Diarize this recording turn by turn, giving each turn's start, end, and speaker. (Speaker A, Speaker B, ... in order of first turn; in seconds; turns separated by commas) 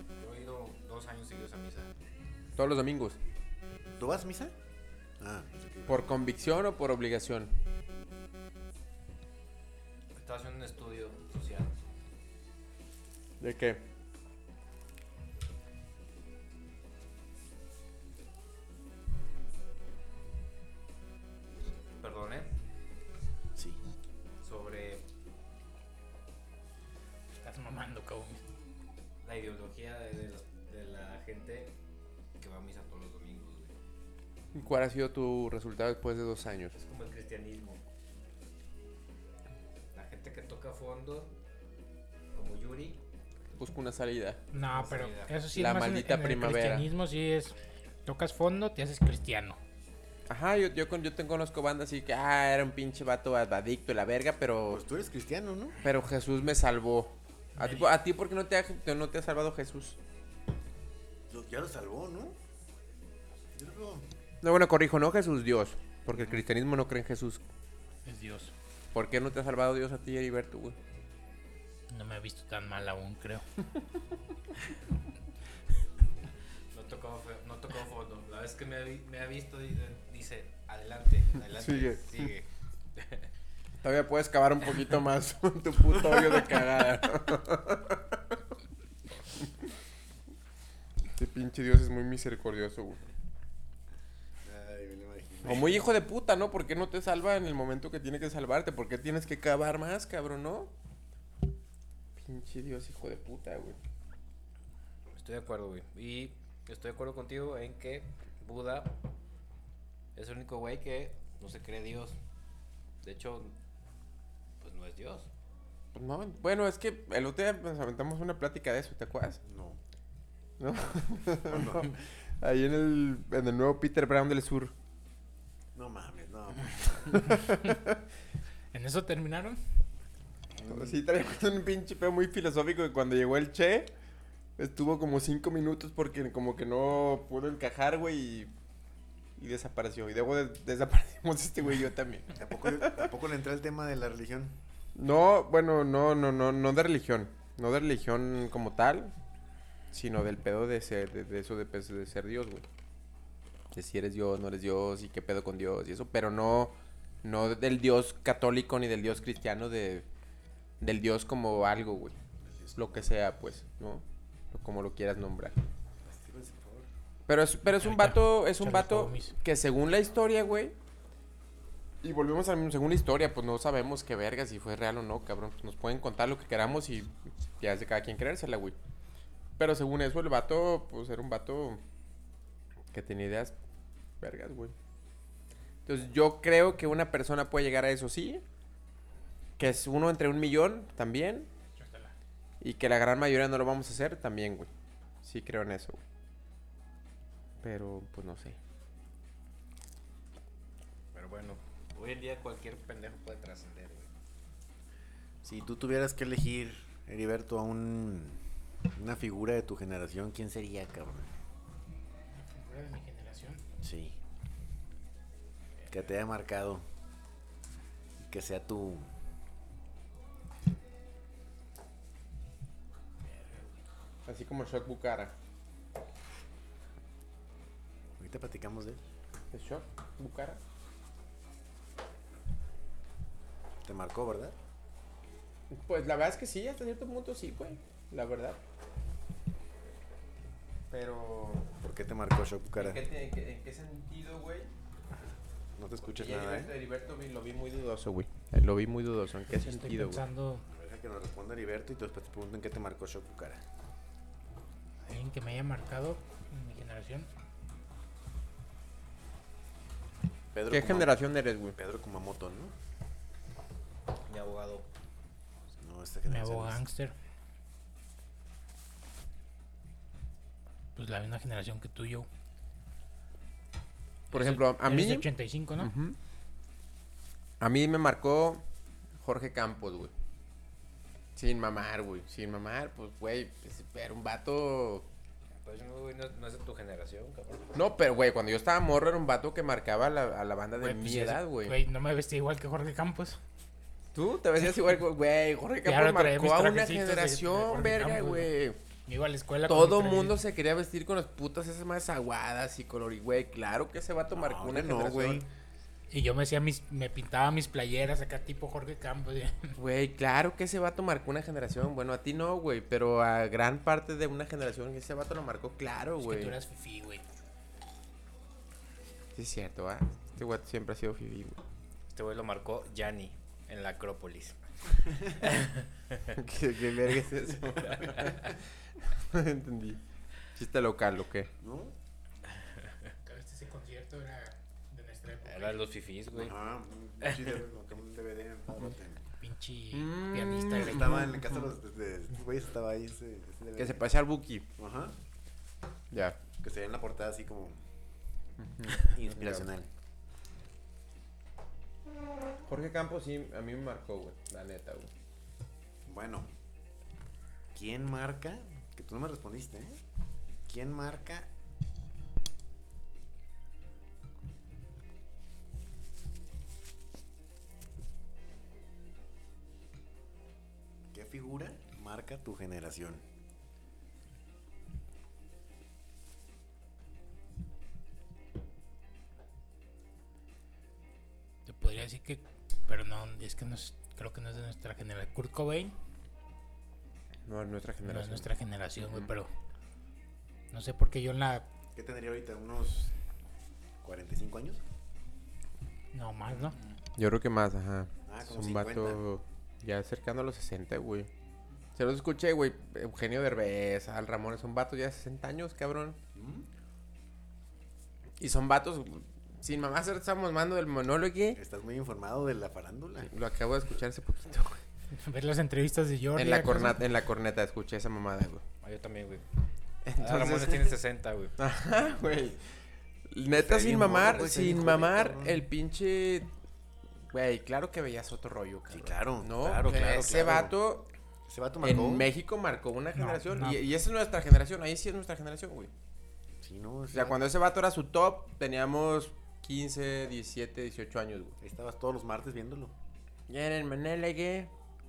Speaker A: 0.2-1.9, Speaker B: 2.6-3.2, Speaker C: 3.9-4.5, Speaker C: 5.2-6.1, Speaker B: 5.9-7.5, Speaker A: 10.2-11.7, Speaker B: 13.4-13.8, Speaker A: 22.0-22.6, Speaker A: 24.4-25.0, Speaker D: 27.4-28.4, Speaker A: 29.2-31.7, Speaker A: 32.4-33.7, Speaker B: 34.5-36.8, Speaker A: 36.8-37.8, Speaker A: 39.9-41.3, Speaker A: 42.3-43.0, Speaker B: 43.6-44.4, Speaker D: 44.5-47.5, Speaker A: 44.6-45.5, Speaker B: 45.5-46.9, Speaker D: 48.1-49.6, Speaker B: 50.3-54.8, Speaker C: 54.7-55.8, Speaker B: 55.8-60.0, Speaker C: 61.3-62.4, Speaker C: 63.5-64.1, Speaker B: 64.4-67.4, Speaker D: 68.0-68.5, Speaker B: 68.9-70.8, Speaker D: 71.9-73.5, Speaker A: 76.7-83.3, Speaker B: 81.5-82.3, Speaker B: 83.8-88.2, Speaker B: 91.1-93.0, Speaker C: 94.4-95.8, Speaker B: 95.4-100.7, Speaker B: 102.2-103.8, Speaker A: 105.2-108.9, Speaker A: 110.2-112.2, Speaker A: 113.0-113.5, Speaker A: 114.6-115.3, Speaker B: 116.0-119.4, Speaker C: 119.4-119.8, Speaker B: 120.6-124.7, Speaker C: 121.5-122.0, Speaker C: 125.8-127.4, Speaker B: 127.1-127.9, Speaker D: 128.7-129.6, Speaker C: 130.5-131.0, Speaker B: 130.7-133.9, Speaker B: 134.6-138.5, Speaker B: 139.4-143.1, Speaker C: 142.3-144.6, Speaker B: 145.0-149.1, Speaker B: 149.9-152.7, Speaker B: 153.7-160.1, Speaker B: 160.8-162.2, Speaker C: 162.4-163.1, Speaker B: 162.8-165.6, Speaker C: 166.0-166.9, Speaker B: 167.3-170.7, Speaker D: 167.8-169.3, Speaker B: 172.0-178.8, Speaker B: 179.6-181.8, Speaker B: 182.9-183.6, Speaker B: 184.2-184.7, Speaker B: 185.9-188.4, Speaker B: 189.6-191.5, Speaker D: 191.8-192.1, Speaker B: 192.6-194.7, Speaker B: 195.2-196.0, Speaker B: 197.6-198.6, Speaker A: 201.1-204.1, Speaker C: 205.4-208.4, Speaker C: 208.9-211.3, Speaker D: 212.4-213.6, Speaker C: 213.8-214.2, Speaker C: 215.9-216.8, Speaker C: 218.2-219.1, Speaker B: 224.3-225.3, Speaker C: 228.2-229.0, Speaker B: 229.5-230.6, Speaker C: 233.8-234.6, Speaker B: 235.7-238.6, Speaker B: 240.9-241.7, Speaker C: 241.8-243.0, Speaker B: 242.8-244.7, Speaker C: 245.8-246.7, Speaker B: 246.1-250.2, Speaker D: 249.5-250.7, Speaker C: 250.7-253.6, Speaker D: 255.1-257.3, Speaker C: 260.5-261.2, Speaker B: 260.7-261.8, Speaker C: 261.8-262.7, Speaker A: 264.3-264.9, Speaker C: 265.8-266.8, Speaker D: 266.3-267.1, Speaker D: 271.0-272.3, Speaker D: 274.3-275.9, Speaker B: 274.3-276.2, Speaker B: 277.6-278.6, Speaker B: 279.2-280.1, Speaker B: 281.4-285.1, Speaker A: 285.6-287.8, Speaker B: 287.7-291.8, Speaker D: 290.8-293.4, Speaker B: 294.1-298.8, Speaker D: 295.9-298.5, Speaker D: 299.1-300.4, Speaker B: 299.7-305.4, Speaker C: 304.3-305.5, Speaker D: 306.1-309.8, Speaker B: 309.8-316.6, Speaker D: 316.2-317.2, Speaker B: 319.4-321.6, Speaker A: 322.1-326.2, Speaker B: 326.3-330.0, Speaker A: 328.0-328.3, Speaker B: 330.5-331.5, Speaker C: 331.6-331.9, Speaker D: 333.2-335.8, Speaker A: 335.4-336.6, Speaker C: 336.3-339.2, Speaker A: 337.2-337.6, Speaker D: 339.4-341.4, Speaker B: 339.9-341.6, Speaker C: 340.7-344.0, Speaker B: 343.8-344.7, Speaker C: 344.8-345.1, Speaker B: 346.1-346.4, Speaker C: 346.6-347.8, Speaker B: 348.6-349.7, Speaker C: 348.9-349.9, Speaker B: 352.7-355.1, Speaker C: 356.1-356.5, Speaker C: 357.7-360.0, Speaker C: 360.7-361.5, Speaker C: 371.1-373.2, Speaker D: 381.7-386.0, Speaker B: 387.5-388.5, Speaker D: 388.0-389.5, Speaker B: 389.0-389.3, Speaker D: 390.7-391.7, Speaker C: 391.9-393.1, Speaker C: 394.0-394.8, Speaker D: 396.1-396.8, Speaker B: 397.2-401.3, Speaker C: 398.3-399.2, Speaker B: 402.0-406.2, Speaker C: 406.3-406.7, Speaker B: 408.4-411.6, Speaker C: 411.5-413.3, Speaker B: 413.2-414.8, Speaker D: 415.1-417.0, Speaker B: 416.4-418.6, Speaker A: 418.8-419.4, Speaker B: 420.1-420.9, Speaker A: 420.2-421.5, Speaker B: 421.6-422.6, Speaker B: 423.3-426.5, Speaker C: 423.5-425.6, Speaker B: 427.3-431.1, Speaker C: 428.9-430.8, Speaker C: 431.5-432.3, Speaker B: 431.8-435.9, Speaker D: 433.1-433.8, Speaker C: 436.6-437.4, Speaker B: 437.1-441.6, Speaker C: 441.6-442.9, Speaker B: 443.5-444.7